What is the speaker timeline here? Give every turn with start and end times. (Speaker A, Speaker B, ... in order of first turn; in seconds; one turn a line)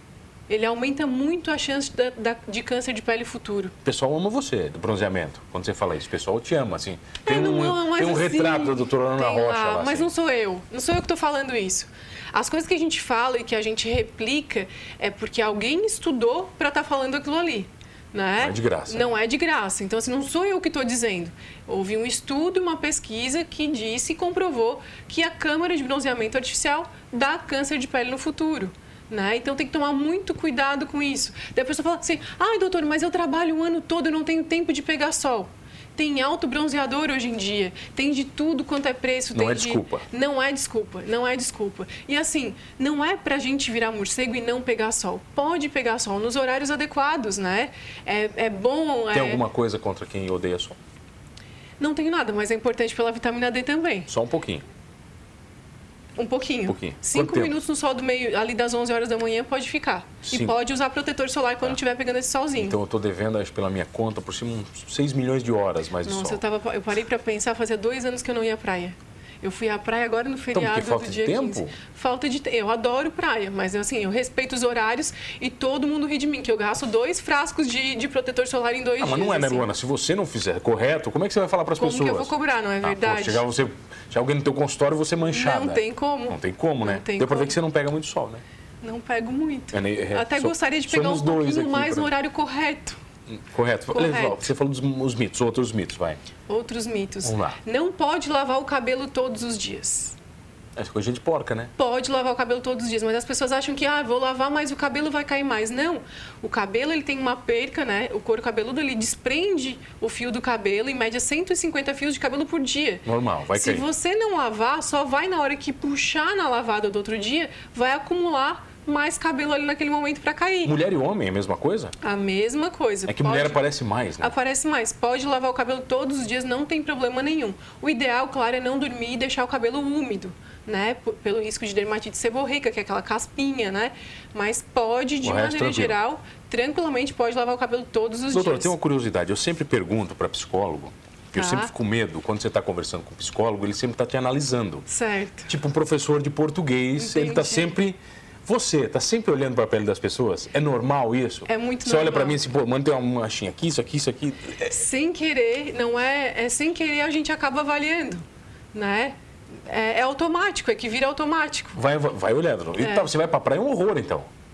Speaker A: 0.5-3.7
Speaker B: 3.8-10.1
Speaker A: 7.2-49.4
Speaker B: 18.4-19.1
Speaker B: 39.4-40.0
Speaker B: 49.1-50.8
Speaker A: 51.8-54.1
Speaker B: 54.1-54.6
Speaker A: 56.2-62.8
Speaker B: 56.7-57.6
Speaker B: 60.2-60.6
Speaker B: 62.6-66.4
Speaker A: 66.0-79.7
Speaker B: 70.5-71.8
Speaker B: 79.0-88.4
Speaker A: 81.8-83.5
Speaker A: 85.2-87.6
Speaker A: 88.8-93.0
Speaker B: 89.7-92.1
Speaker B: 93.5-96.2
Speaker A: 93.9-94.5
Speaker A: 96.5-100.2
Speaker B: 97.2-97.6
Speaker B: 100.8-101.7
Speaker A: 101.8-120.8
Speaker B: 113.0-113.9
Speaker B: 120.7-121.9
Speaker A: 122.0-123.7
Speaker B: 123.1-124.3
Speaker A: 124.2-138.8
Speaker B: 135.2-136.0
Speaker B: 138.3-144.9
Speaker A: 141.3-141.7
Speaker A: 144.9-145.5
Speaker B: 145.5-154.8
Speaker A: 147.0-147.8
Speaker A: 151.5-152.4
Speaker A: 154.7-159.2
Speaker A: 159.7-161.8
Speaker B: 161.8-164.3
Speaker A: 162.8-163.1